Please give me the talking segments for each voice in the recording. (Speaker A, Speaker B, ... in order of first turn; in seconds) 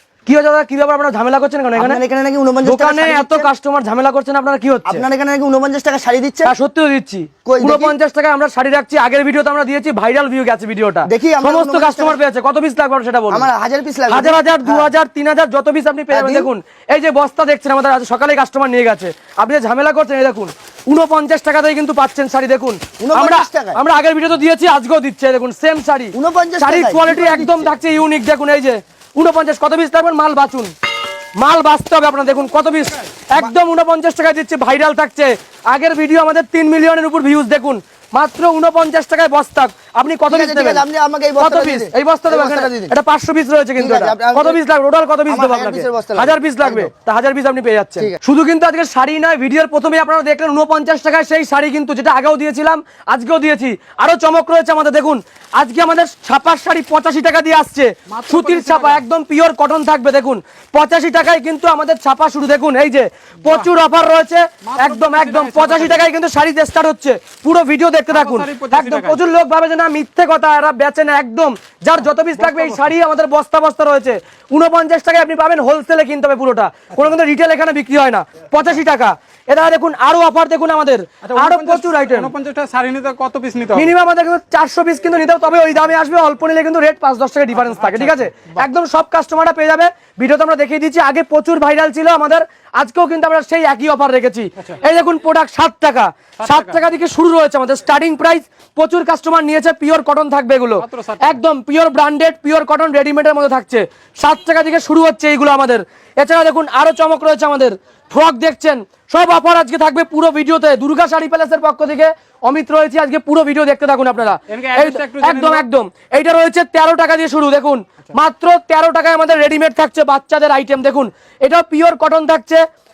Speaker A: 0.3-2.0, 2.6-5.0, 6.5-13.5, 14.1-30.7, 31.4-40.9, 41.4-82.3, 83.7-122.6
Speaker B: 1.8-3.5, 4.9-6.5, 7.5-8.0, 11.1-12.2, 13.3-14.9, 16.1-16.5, 23.0-23.8, 26.1-27.7, 40.3-43.0, 43.8-44.6, 45.3-46.9
Speaker C: 58.1-59.0, 64.7-66.0, 68.1-69.2, 72.4-72.9, 81.2-83.9, 87.7-88.2, 96.4-96.8, 100.8-101.4, 114.5-115.7